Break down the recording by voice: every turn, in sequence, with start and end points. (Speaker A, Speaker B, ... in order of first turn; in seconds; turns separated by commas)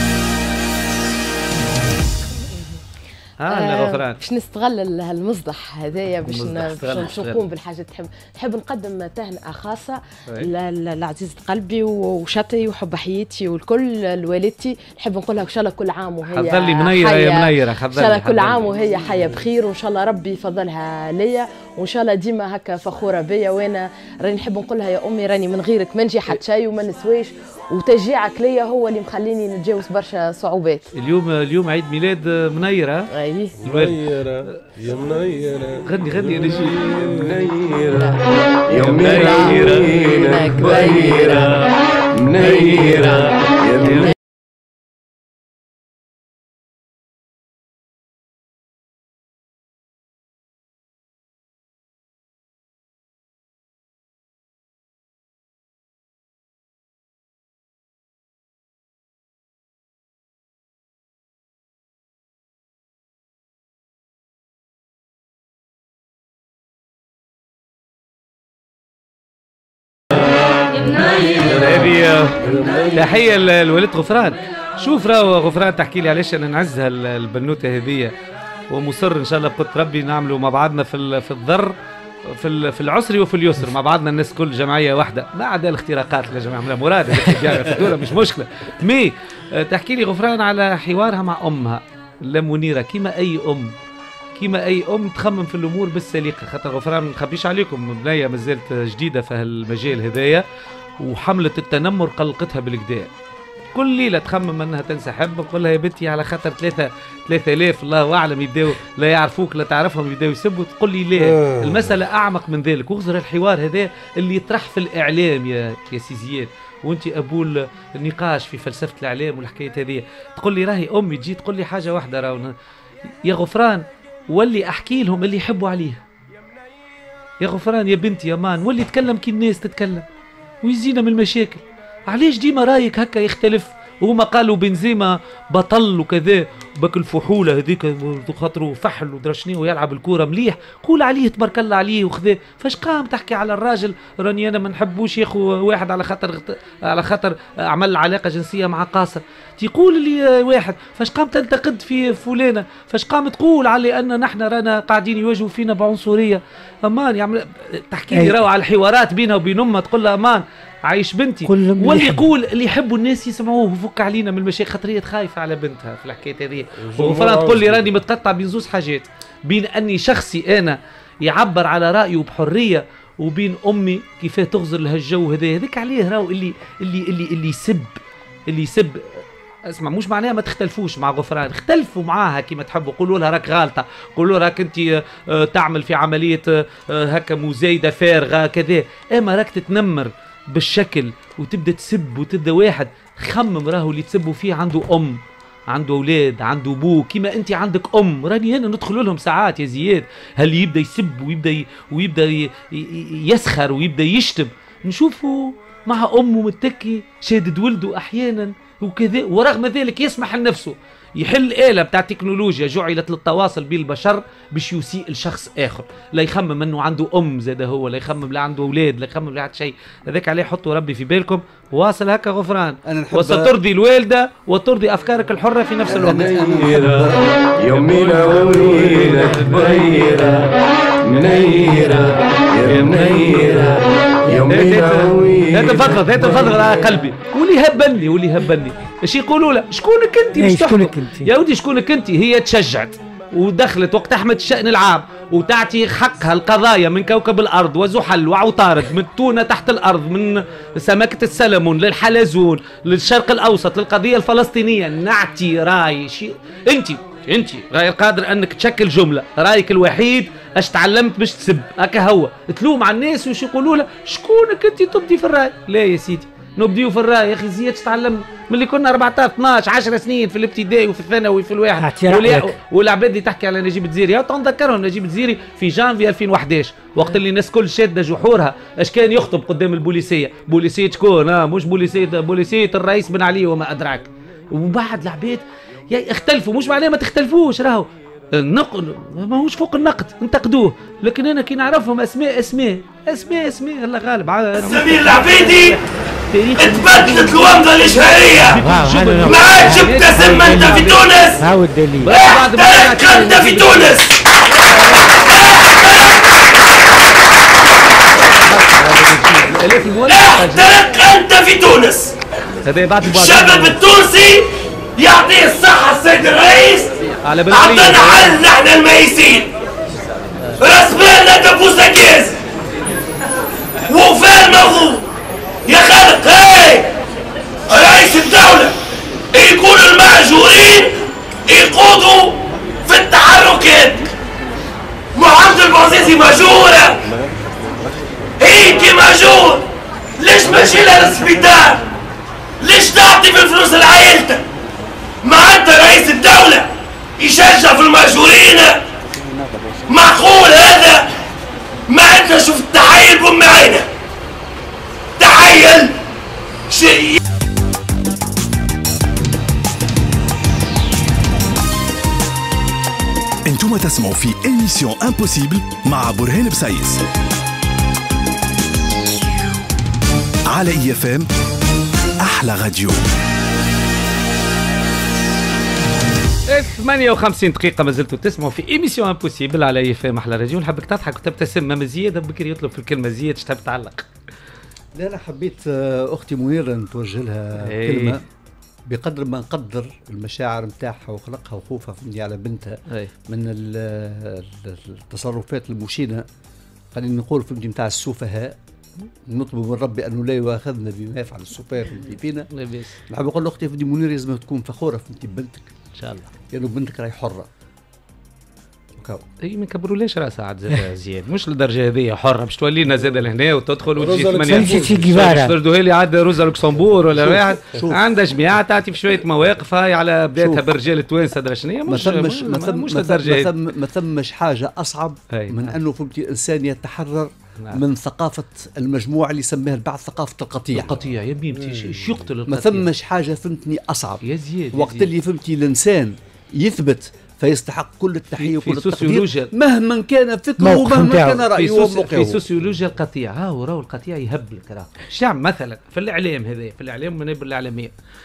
Speaker A: 3.4-4.2, Speaker B: 3.5-30.9, Speaker A: 6.3-7.4, Speaker A: 16.3-18.8, Speaker A: 30.9-33.1, Speaker B: 33.1-33.5, Speaker C: 33.6-37.6, Speaker A: 33.6-34.0, Speaker A: 35.9-37.4, Speaker B: 37.9-38.2, Speaker B: 38.7-41.7, Speaker A: 38.7-41.7, Speaker A: 42.3-44.1, Speaker B: 43.9-44.1, Speaker A: 71.4-72.4, Speaker A: 72.9-78.1, Speaker A: 78.7-81.7, Speaker A: 82.3-93.7, Speaker A: 94.4-100.4, Speaker A: 101.0-103.1, Speaker A: 103.7-122.5, Speaker C: 111.2-111.9, Speaker A: 123.2-126.0, Speaker A: 127.4-130.1, Speaker A: 130.6-227.1, Speaker D: 158.1-158.4, Speaker D: 161.4-162.3, Speaker C: 166.8-167.9, Speaker E: 222.9-223.6, Speaker E: 225.9-227.3, Speaker A: 227.6-230.5, Speaker A: 231.1-301.2, Speaker D: 240.3-241.3, Speaker D: 271.8-272.6, Speaker F: 294.6-295.8, Speaker F: 296.6-298.6, Speaker D: 298.6-302.1, Speaker F: 299.2-301.4, Speaker A: 302.0-305.2, Speaker F: 302.1-304.1, Speaker F: 305.0-306.2, Speaker A: 308.4-310.8, Speaker F: 310.1-312.1, Speaker A: 312.6-313.8, Speaker F: 313.0-316.9, Speaker A: 317.2-318.4, Speaker F: 317.5-319.5, Speaker F: 320.6-322.4, Speaker F: 323.9-325.1, Speaker F: 325.7-326.9, Speaker F: 327.7-328.7, Speaker F: 329.3-330.9, Speaker F: 331.5-334.1, Speaker F: 335.1-337.0, Speaker F: 338.4-339.6, Speaker F: 340.2-341.8, Speaker F: 342.6-344.4, Speaker F: 345.2-348.8, Speaker F: 349.9-351.1, Speaker F: 351.9-353.9, Speaker F: 355.2-355.9, Speaker F: 356.7-357.2, Speaker G: 363.4-367.0, Speaker G: 370.5-371.3, Speaker G: 372.2-373.0, Speaker A: 376.5-384.1, Speaker E: 384.9-388.2, Speaker A: 387.6-388.2, Speaker E: 388.9-396.3, Speaker E: 396.9-398.6, Speaker E: 399.3-402.5, Speaker A: 402.5-403.0, Speaker E: 403.1-405.7, Speaker A: 406.0-406.3, Speaker E: 406.5-407.5, Speaker A: 409.4-423.5, Speaker C: 413.9-415.2, Speaker D: 414.5-415.6, Speaker E: 417.1-418.0, Speaker E: 420.4-420.6, Speaker E: 421.9-431.0, Speaker A: 425.3-425.8, Speaker A: 430.7-432.9, Speaker E: 432.5-434.2, Speaker A: 434.2-435.1, Speaker E: 434.7-442.4, Speaker A: 438.4-439.5, Speaker D: 440.6-441.4, Speaker A: 441.5-447.9